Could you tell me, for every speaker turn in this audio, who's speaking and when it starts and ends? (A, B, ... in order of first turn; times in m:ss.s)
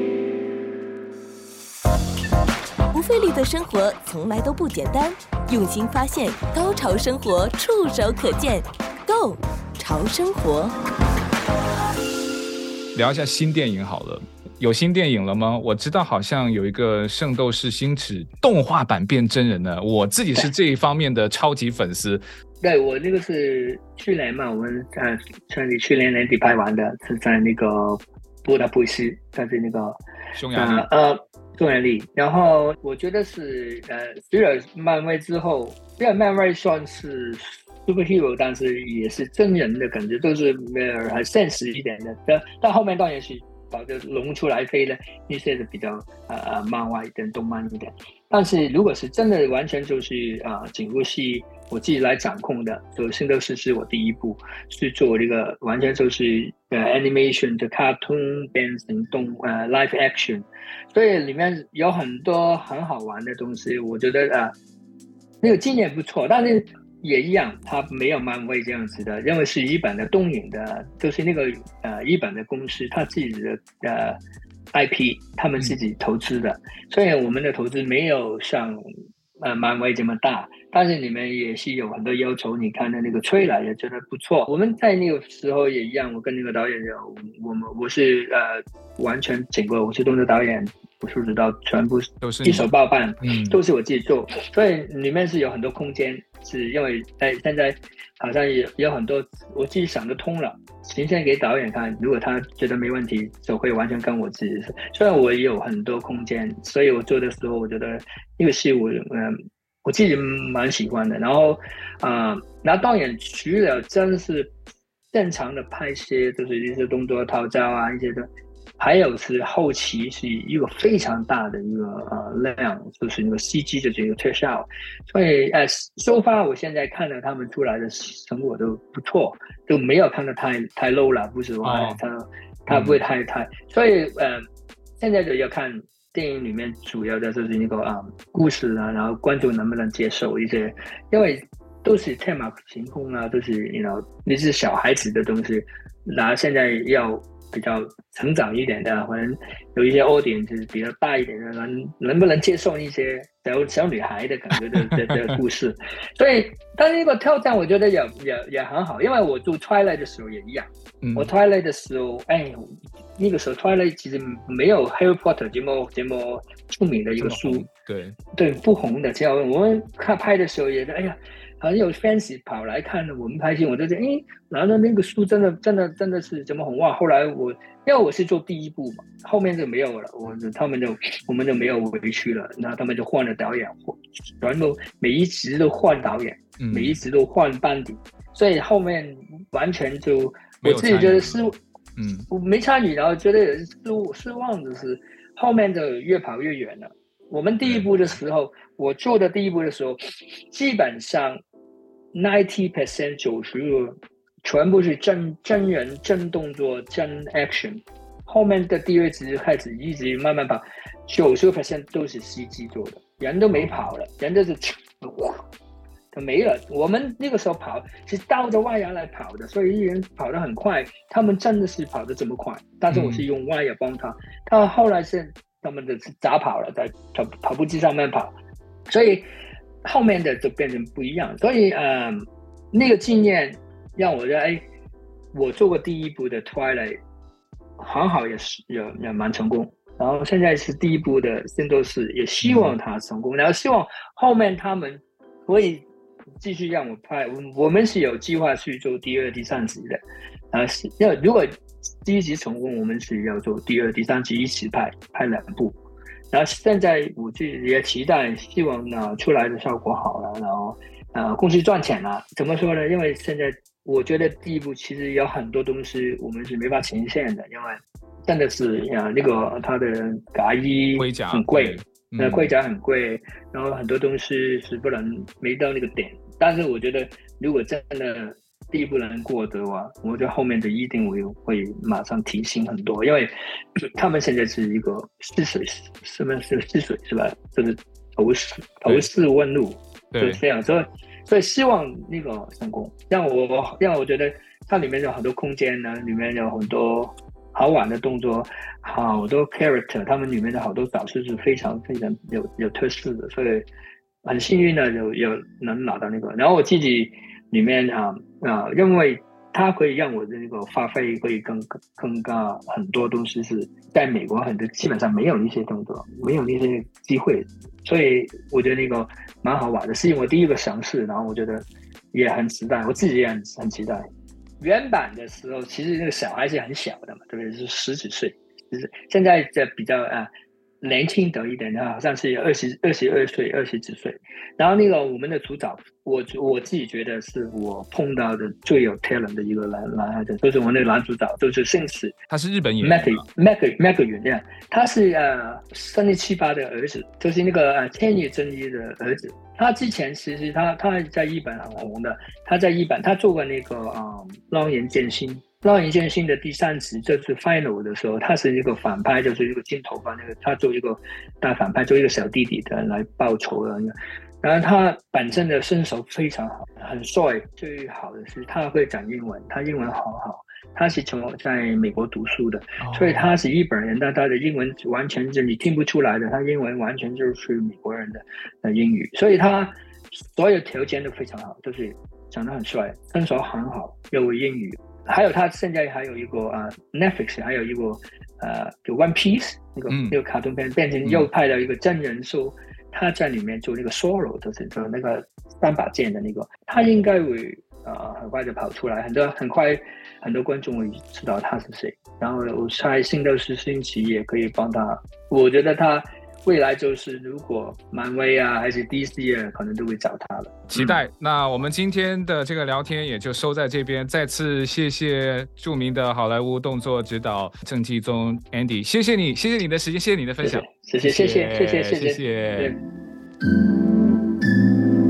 0:02.9-0:10.8 A
0:12.9-0:22.2 B
0:22.6-0:30.0 C
0:30.3-0:30.8 B
0:30.6-1:04.5 C
1:05.4-1:14.2 C
1:14.7-1:18.8 C
1:19.4-1:54.5 C
1:32.2-1:33.6 B
1:55.1-1:58.3 C
1:58.8-2:14.4 C
2:11.6-2:12.0 B
2:12.7-2:13.0 B
2:15.0-2:47.6 C
2:34.7-2:35.3 B
2:41.0-2:41.3 B
2:47.2-2:48.2 B
2:48.3-3:11.6 C
3:06.6-3:07.0 B
3:10.6-3:11.4 B
3:12.0-3:12.3 B
3:12.3-3:21.4 C
3:17.6-3:18.1 B
3:22.1-3:35.4 C
3:33.5-3:33.9 B
3:36.1-3:48.4 C
3:42.9-3:43.2 B
3:48.9-3:49.2 C
3:49.8-3:54.6 C
3:55.3-3:57.0 C
3:57.8-4:05.9 C
4:02.4-4:02.7 B
4:06.4-4:10.0 C
4:10.5-4:15.8 C
4:16.3-5:03.7 C
4:31.0-4:32.5 B
4:50.1-4:50.4 B
5:04.2-5:24.1 C
5:24.6-5:30.3 C
5:30.8-5:42.1 C
5:42.3-5:43.2 B
5:42.8-6:51.0 C
6:12.8-6:13.3 B
6:29.9-6:30.2 B
6:50.7-7:02.7 B
7:00.4-7:02.8 C